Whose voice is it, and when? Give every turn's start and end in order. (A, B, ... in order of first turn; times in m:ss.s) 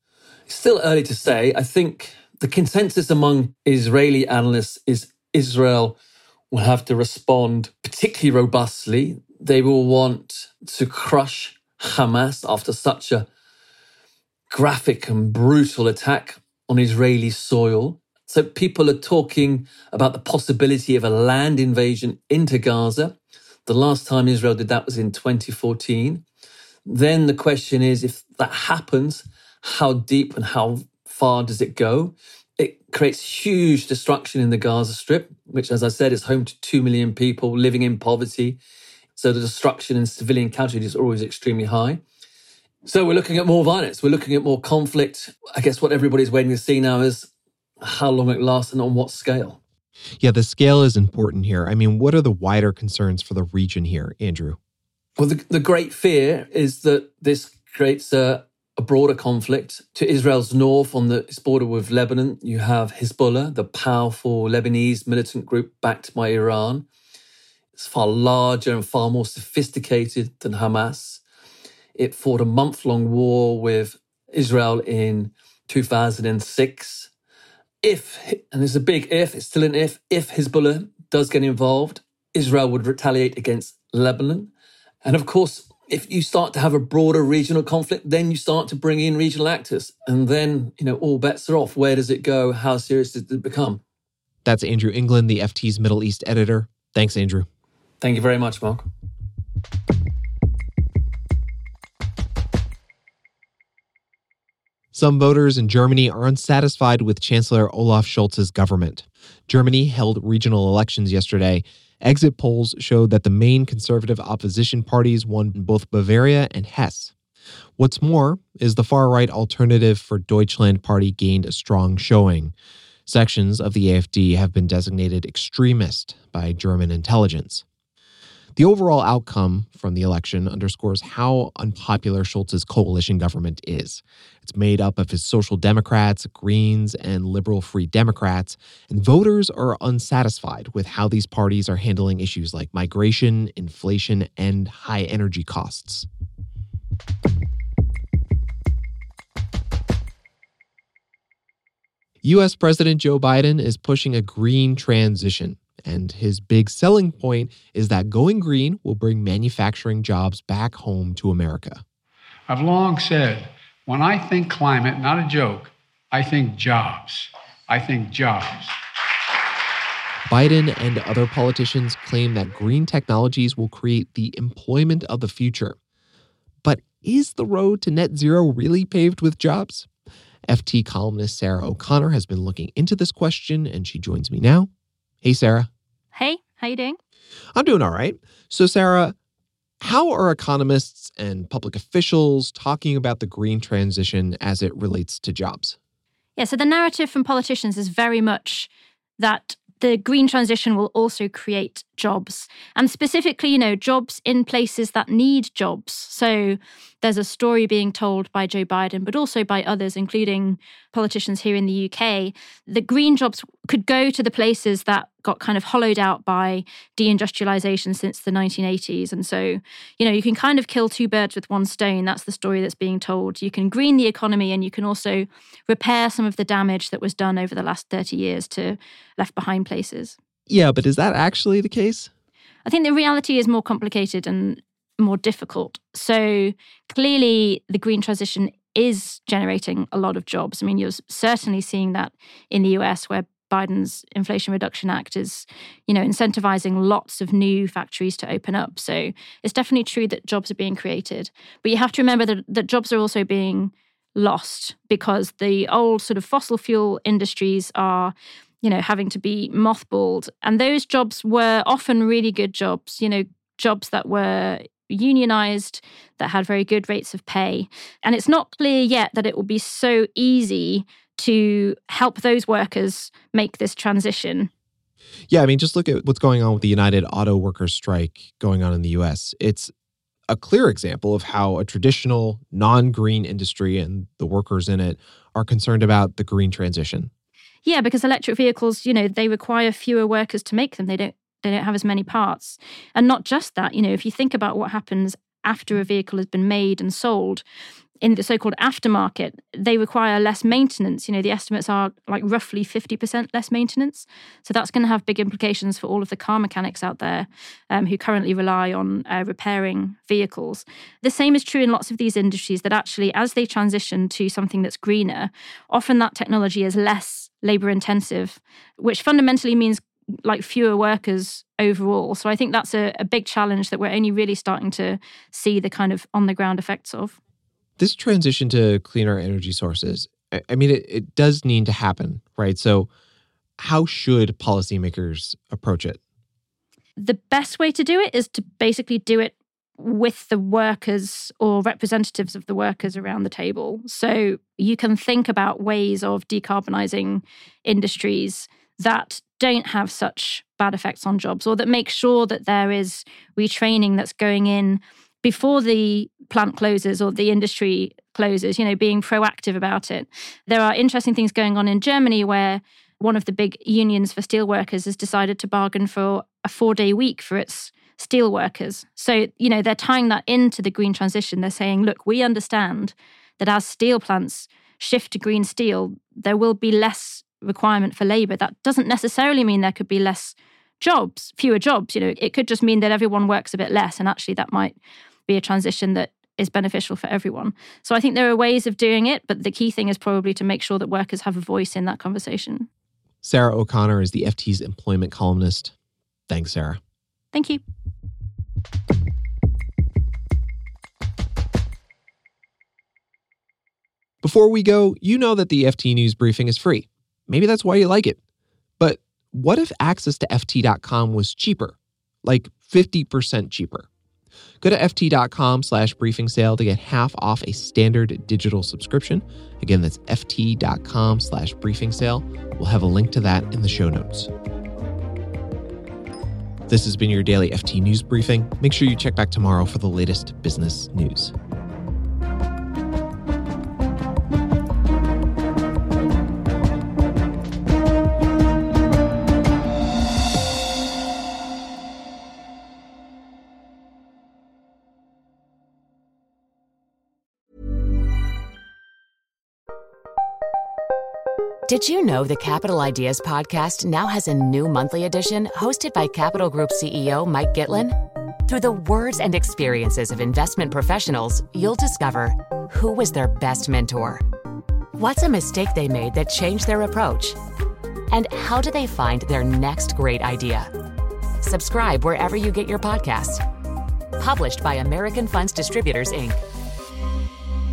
0:00.5-0:06.0 A
0:06.5-0:13.3 A
0:14.5-0:26.2 A
0:26.9-0:38.6 A
0:39.2-0:42.0 A
0:42.8-0:47.3 A
0:47.8-0:49.6 A
0:50.2-0:54.6 B
0:55.2-1:06.9 A
1:07.8-1:11.2 A
1:12.0-1:17.1 A
1:17.8-1:24.5 A
1:25.0-1:33.8 A
1:34.4-1:37.5 B
1:38.0-1:38.8 A
1:44.9-1:57.1 B
1:57.8-2:02.5 B
2:03.0-2:07.6 B
2:08.6-2:26.1 B
2:32.2-2:41.8 B
2:42.5-2:48.7 C
2:50.3-2:55.8 B
2:56.6-2:59.9 B
3:00.5-3:04.7 B
3:05.2-3:05.7 B
3:06.1-3:07.0 D
3:07.6-3:09.1 B
3:09.8-3:15.8 B
3:16.4-3:50.2 D
3:50.5-3:52.1 B
3:52.6-4:34.5 D
4:35.3-4:39.7 B
4:40.3-4:47.1 B
4:47.6-4:57.4 D
4:58.0-5:27.2 D
5:27.8-5:32.9 B
5:33.6-5:36.0 B
5:37.0-6:32.7 D
6:33.2-6:35.7 B
6:36.3-6:36.8 B
6:37.3-6:37.6 D
6:44.2-6:48.2 B
6:48.8-6:53.9 B
6:54.6-7:04.3 B
7:06.7-7:11.3 B
7:31.7-7:44.2 E
7:44.9-7:47.4 E
7:48.1-7:50.7 E
7:51.4-7:53.4 E
7:54.2-7:56.4 E